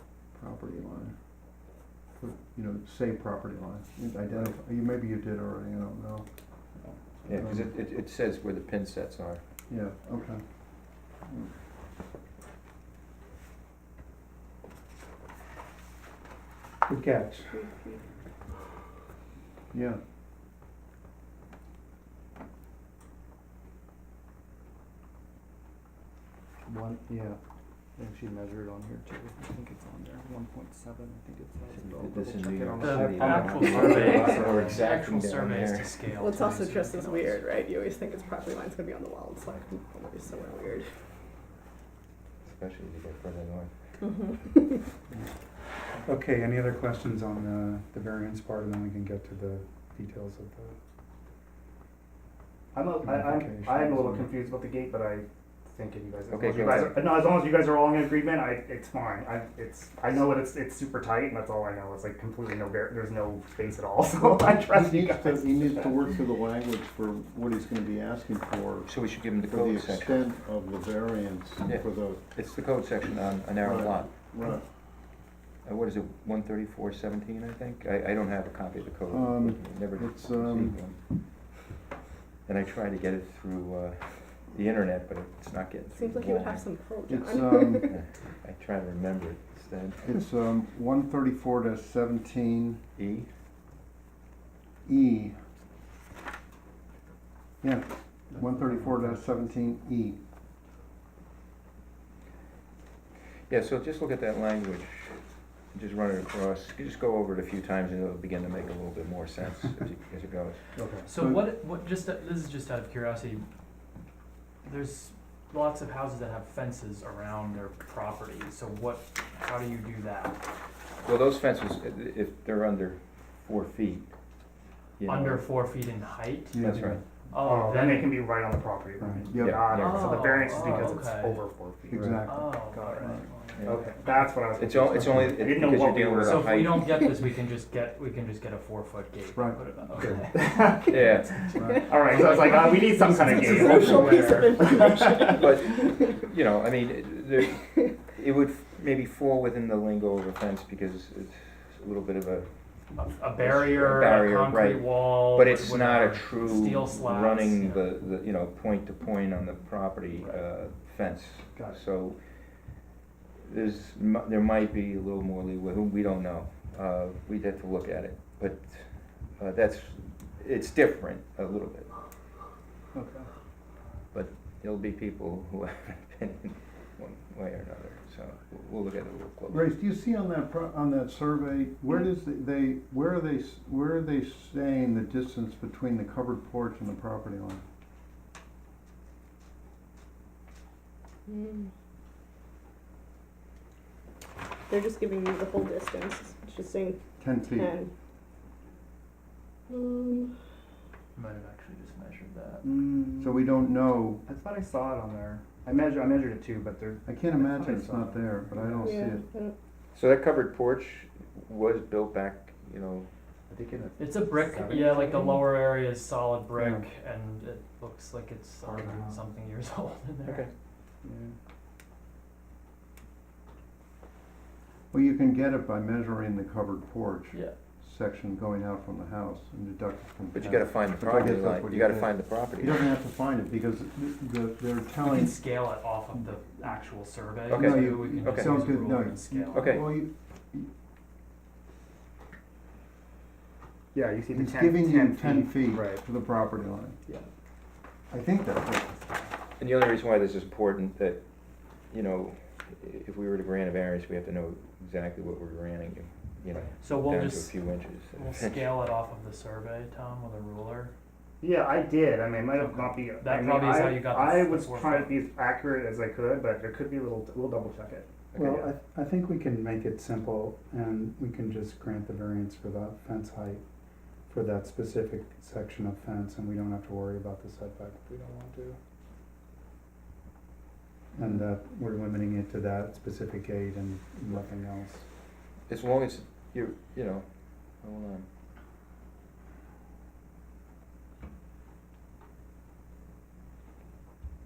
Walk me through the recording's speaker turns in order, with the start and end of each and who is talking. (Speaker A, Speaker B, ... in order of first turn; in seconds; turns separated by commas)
Speaker A: 0.3-1.1, Speaker A: 2.1-6.2, Speaker B: 7.2-9.4, Speaker A: 7.3-7.7, Speaker A: 9.7-10.4, Speaker C: 16.9-17.6, Speaker D: 17.5-18.0, Speaker A: 19.7-20.0, Speaker E: 26.6-27.4, Speaker E: 28.0-34.8, Speaker B: 31.7-35.9, Speaker F: 32.8-37.4, Speaker D: 33.8-34.5, Speaker D: 36.1-40.9, Speaker B: 42.4-43.7, Speaker D: 44.0-44.9, Speaker C: 46.0-50.7, Speaker E: 52.7-65.9, Speaker A: 53.1-54.3, Speaker B: 56.3-57.0, Speaker A: 64.6-72.2, Speaker B: 68.8-70.2, Speaker B: 71.7-74.1, Speaker A: 73.6-74.6, Speaker B: 75.6-81.0, Speaker A: 79.1-80.8, Speaker B: 82.5-86.6, Speaker D: 85.9-88.0, Speaker A: 87.1-88.0, Speaker B: 87.8-90.2, Speaker A: 90.0-92.8, Speaker B: 93.0-93.3, Speaker A: 94.8-95.3, Speaker A: 97.6-100.2, Speaker B: 103.5-105.2, Speaker B: 105.7-110.6, Speaker A: 110.8-111.4, Speaker F: 111.0-113.4, Speaker F: 114.6-120.4, Speaker B: 121.0-124.1, Speaker B: 125.0-125.5, Speaker F: 125.0-128.2, Speaker A: 126.5-127.0, Speaker B: 126.6-127.0, Speaker E: 127.4-136.5, Speaker C: 129.0-129.2, Speaker A: 129.3-129.7, Speaker B: 129.3-130.4, Speaker F: 129.7-131.4, Speaker A: 131.9-133.2, Speaker F: 132.2-134.0, Speaker B: 133.6-137.1, Speaker F: 136.2-144.2, Speaker A: 139.3-139.6, Speaker E: 140.3-144.6, Speaker B: 140.9-141.5, Speaker D: 143.3-146.0, Speaker B: 145.3-152.5, Speaker F: 152.9-157.9, Speaker B: 153.4-162.2, Speaker B: 163.4-171.9, Speaker E: 172.9-173.3, Speaker B: 174.1-179.7, Speaker A: 179.5-187.6, Speaker D: 191.3-191.7, Speaker D: 194.7-197.9, Speaker A: 197.2-197.8, Speaker D: 199.7-200.3, Speaker F: 201.1-202.6, Speaker E: 202.6-203.4, Speaker A: 203.2-204.2, Speaker E: 204.2-208.9, Speaker A: 207.1-209.2, Speaker D: 208.8-209.5, Speaker B: 209.9-213.1, Speaker E: 213.5-215.4, Speaker F: 214.0-220.5, Speaker A: 216.6-216.8, Speaker E: 218.6-219.2, Speaker B: 220.2-220.5, Speaker E: 221.0-221.3, Speaker A: 224.9-235.4, Speaker B: 230.3-232.9, Speaker F: 235.0-239.8, Speaker B: 237.5-238.6, Speaker A: 237.5-240.7, Speaker B: 239.5-239.8, Speaker E: 243.9-246.0, Speaker A: 244.3-247.0, Speaker A: 248.1-249.2, Speaker B: 249.6-251.2, Speaker B: 251.9-258.7, Speaker F: 256.8-257.6, Speaker F: 258.1-260.9, Speaker E: 261.4-268.7, Speaker F: 262.6-265.2, Speaker C: 268.4-273.6, Speaker C: 274.3-278.8, Speaker C: 281.1-285.0, Speaker B: 285.7-287.2, Speaker B: 287.8-288.2